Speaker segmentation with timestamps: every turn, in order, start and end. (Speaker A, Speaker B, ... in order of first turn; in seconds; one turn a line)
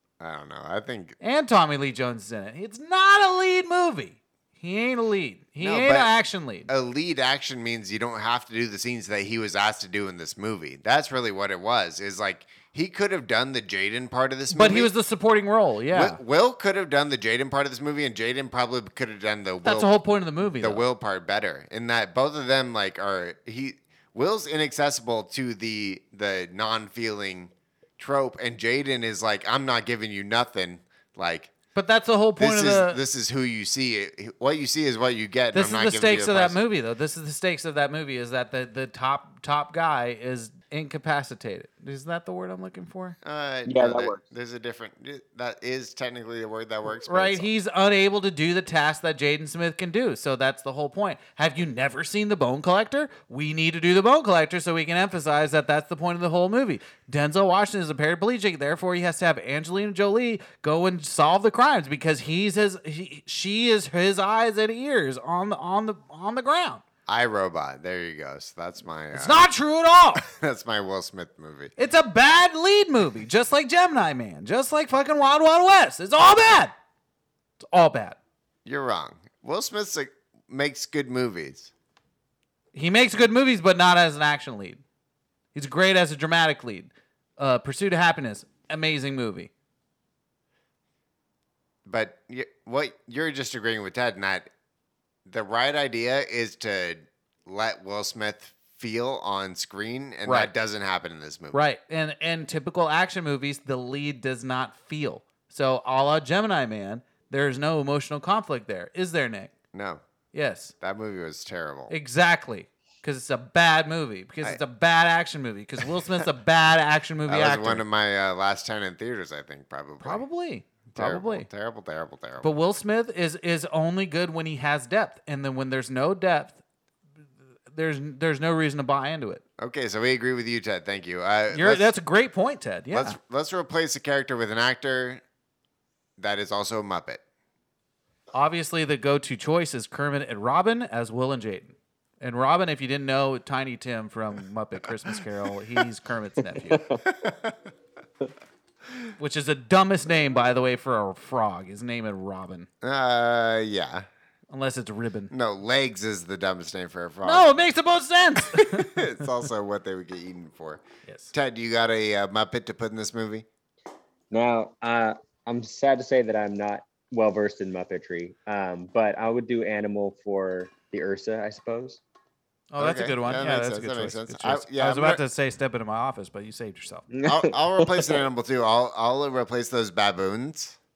Speaker A: 0.2-1.2
Speaker B: 1.2-6.7
Speaker A: 5.6-6.1
Speaker A: 6.7-14.9
Speaker B: 14.5-16.2
Speaker A: 15.9-19.9
Speaker B: 19.6-20.8
Speaker A: 20.4-31.5
Speaker B: 31.8-33.0
Speaker A: 32.4-36.6
Speaker B: 35.5-43.2
Speaker A: 43.2-47.5
Speaker C: 43.7-44.2
Speaker B: 47.0-66.8
Speaker A: 67.1-69.5
Speaker B: 69.1-70.2
Speaker A: 70.2-71.7
Speaker B: 71.8-76.7
Speaker B: 77.6-78.2
Speaker A: 78.7-81.7
Speaker B: 82.7-84.8
Speaker B: 85.5-89.5
Speaker A: 91.9-94.5
Speaker A: 95.3-101.6
Speaker B: 100.3-100.5
Speaker B: 101.5-109.5
Speaker A: 109.7-110.0
Speaker B: 110.3-110.7
Speaker A: 110.8-111.9
Speaker B: 111.9-117.8
Speaker A: 117.3-120.2
Speaker B: 120.0-121.5
Speaker A: 121.0-122.5
Speaker B: 122.4-126.6
Speaker B: 127.7-129.4
Speaker A: 129.6-131.9
Speaker B: 131.5-133.2
Speaker A: 132.9-135.2
Speaker A: 136.2-137.2
Speaker B: 138.3-146.9
Speaker A: 147.2-147.5
Speaker B: 149.2-152.7
Speaker A: 152.8-154.1
Speaker B: 154.5-155.3
Speaker A: 155.3-157.5
Speaker B: 157.2-159.3
Speaker A: 158.5-163.5
Speaker B: 161.1-161.3
Speaker C: 164.3-172.0
Speaker B: 172.7-177.1
Speaker A: 172.8-175.2
Speaker C: 177.1-178.2
Speaker A: 177.2-180.8